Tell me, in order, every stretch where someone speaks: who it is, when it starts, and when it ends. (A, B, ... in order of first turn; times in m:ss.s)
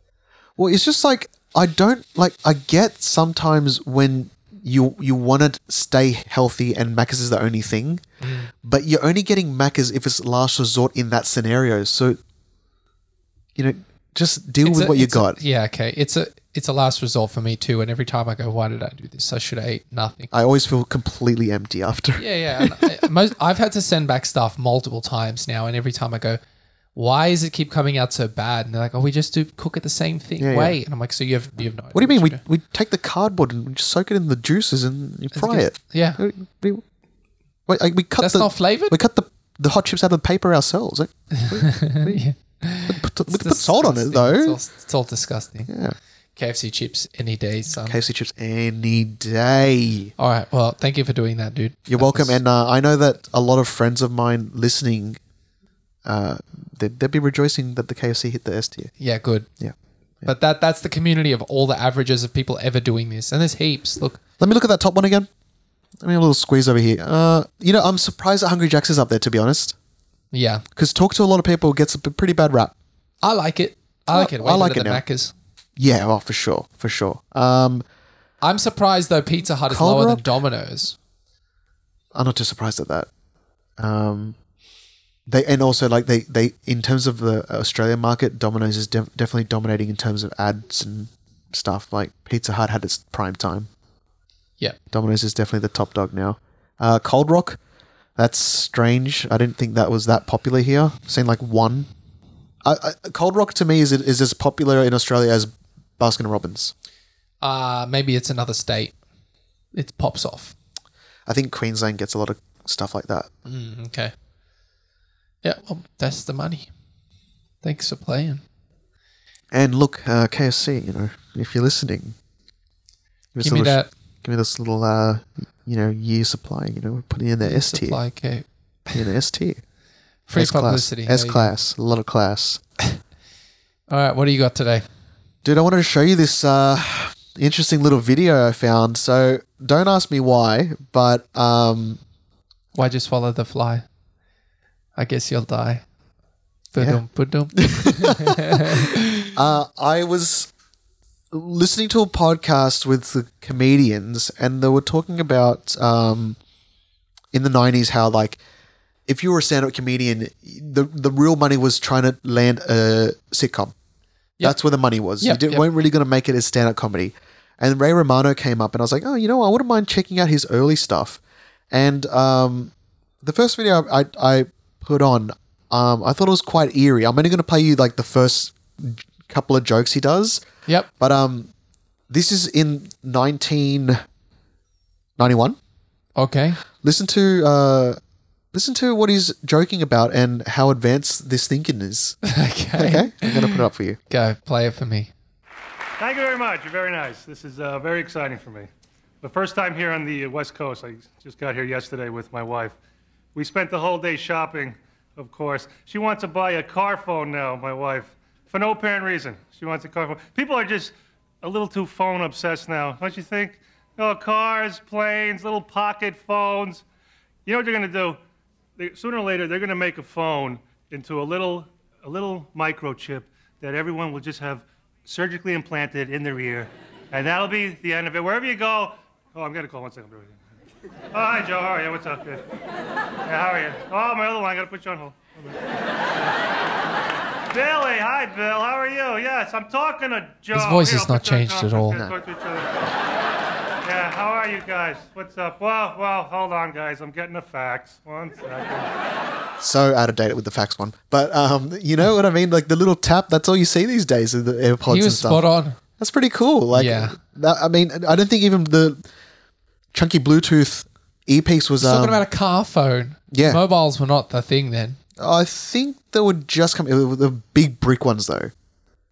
0:00.6-0:08.0 A
0:08.2-0:08.5 B
0:08.6-0:12.2 A
0:13.6-0:15.4 A
0:14.6-0:20.3 B
0:20.3-0:22.9 A
0:22.2-0:26.4 B
0:26.9-0:32.4 B
0:30.4-0:30.8 A
0:31.9-0:36.8 A
0:35.3-0:36.2 B
0:37.7-0:42.2 A
0:38.2-0:39.0 B
0:41.3-0:45.7 B
0:42.9-0:44.6 A
0:45.7-0:45.9 A
0:46.4-0:48.0 B
0:47.8-0:50.1 A
0:50.2-0:52.4 B
0:51.9-0:55.2 A
0:56.0-0:58.9 A
0:59.0-0:59.5 B
0:59.6-1:00.3 A
1:00.2-1:04.2 B
1:04.4-1:05.3 A
1:06.0-1:09.8 A
1:10.3-1:10.6 B
1:10.8-1:12.7 A
1:13.2-1:15.3 B
1:14.1-1:15.0 A
1:15.8-1:17.8 A
1:18.4-1:21.0 B
1:19.7-1:20.2 A
1:22.1-1:23.1 A
1:23.8-1:24.4 A
1:25.3-1:33.7 A
1:34.9-1:37.6 A
1:38.2-1:41.9 A
1:42.6-1:46.7 A
1:47.4-1:48.9 B
1:49.7-1:50.5 B
1:51.3-1:53.3 A
1:53.4-1:54.1 B
1:55.4-1:56.7 B
1:57.6-1:58.4 B
1:59.5-2:02.2 A
2:03.3-2:08.0 A
2:03.4-2:03.9 B
2:07.4-2:09.1 B
2:08.9-2:09.6 A
2:10.3-2:11.5 B
2:10.3-2:12.6 A
2:13.9-2:14.8 B
2:15.4-2:22.0 A
2:22.7-2:23.8 B
2:25.0-2:25.8 B
2:26.7-2:29.2 B
2:27.5-2:30.5 A
2:31.3-2:36.4 A
2:37.3-2:38.4 A
2:39.1-2:43.7 A
2:44.4-2:51.2 A
2:45.2-2:45.6 B
2:51.7-3:00.4 A
3:01.0-3:01.5 A
3:02.1-3:04.0 A
3:05.2-3:05.6 A
3:06.2-3:06.6 B
3:06.8-3:08.0 A
3:08.5-3:12.2 A
3:12.2-3:15.1 B
3:12.8-3:14.0 A
3:16.0-3:18.7 C
3:19.2-3:22.8 C
3:23.3-3:36.8 C
3:37.4-3:38.2 C
3:38.8-3:50.4 C
3:51.1-3:52.4 C
3:53.2-3:55.6 C
3:57.5-4:02.8 C
4:00.5-4:02.0 B
4:03.8-4:08.9 C
4:09.6-4:15.4 A
4:14.9-4:15.8 B
4:16.0-4:19.0 A
4:16.7-4:17.2 B
4:19.9-4:22.2 A
4:21.8-4:25.0 B
4:23.3-4:23.6 A
4:25.2-4:28.5 A